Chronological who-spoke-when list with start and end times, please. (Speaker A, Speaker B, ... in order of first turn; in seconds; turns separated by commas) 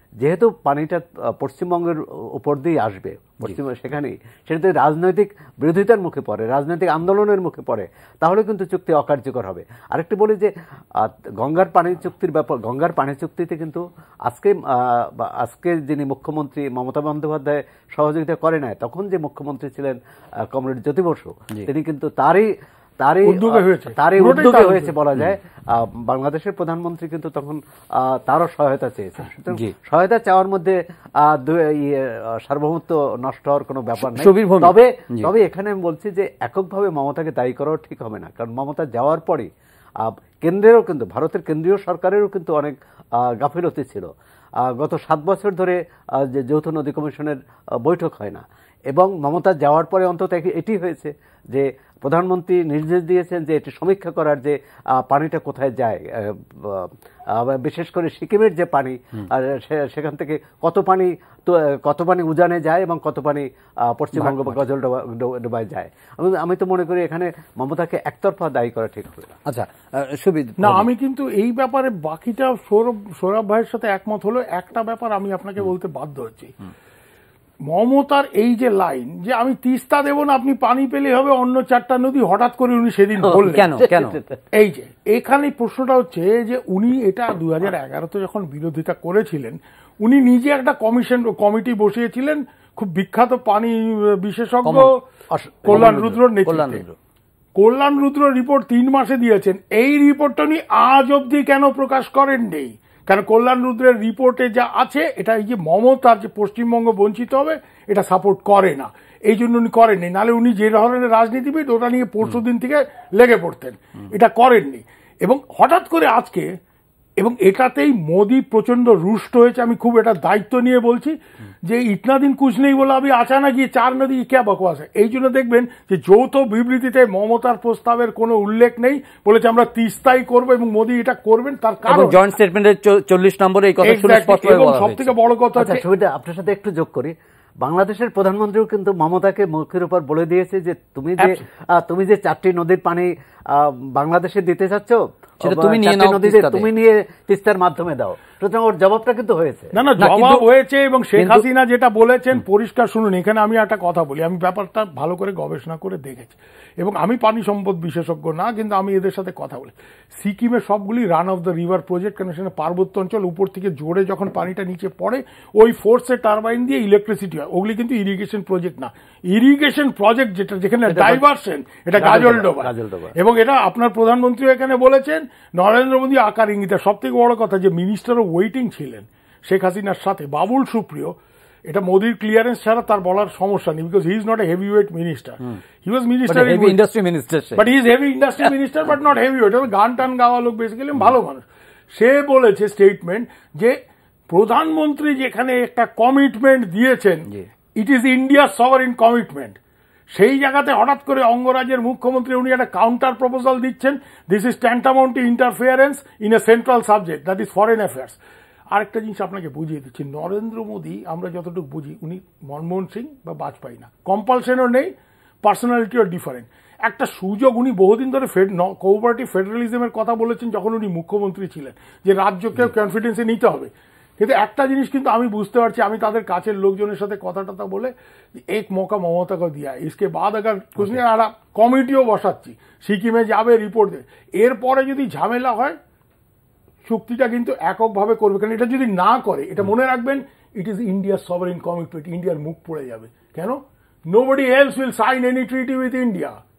Speaker A: 0.2-69.4, Speaker B: 23.2-24.9, Speaker C: 34.0-35.3, Speaker C: 64.2-64.6, Speaker C: 69.5-70.9, Speaker B: 70.6-76.5, Speaker B: 77.7-83.7, Speaker A: 83.2-84.2, Speaker C: 83.3-84.2, Speaker B: 84.5-95.0, Speaker C: 94.6-94.9, Speaker A: 95.3-96.2, Speaker B: 95.6-96.8, Speaker C: 95.7-96.9, Speaker B: 97.5-116.5, Speaker B: 117.2-132.2, Speaker C: 131.9-135.1, Speaker B: 133.8-135.8, Speaker A: 135.6-149.7, Speaker C: 145.4-146.7, Speaker B: 149.7-181.2, Speaker C: 150.0-150.4, Speaker C: 151.2-151.4, Speaker A: 170.9-171.2, Speaker A: 172.0-173.1, Speaker B: 181.7-186.8, Speaker C: 186.3-187.6, Speaker B: 187.6-199.6, Speaker B: 200.1-208.2, Speaker B: 208.7-214.9, Speaker B: 215.4-235.8, Speaker B: 236.8-246.4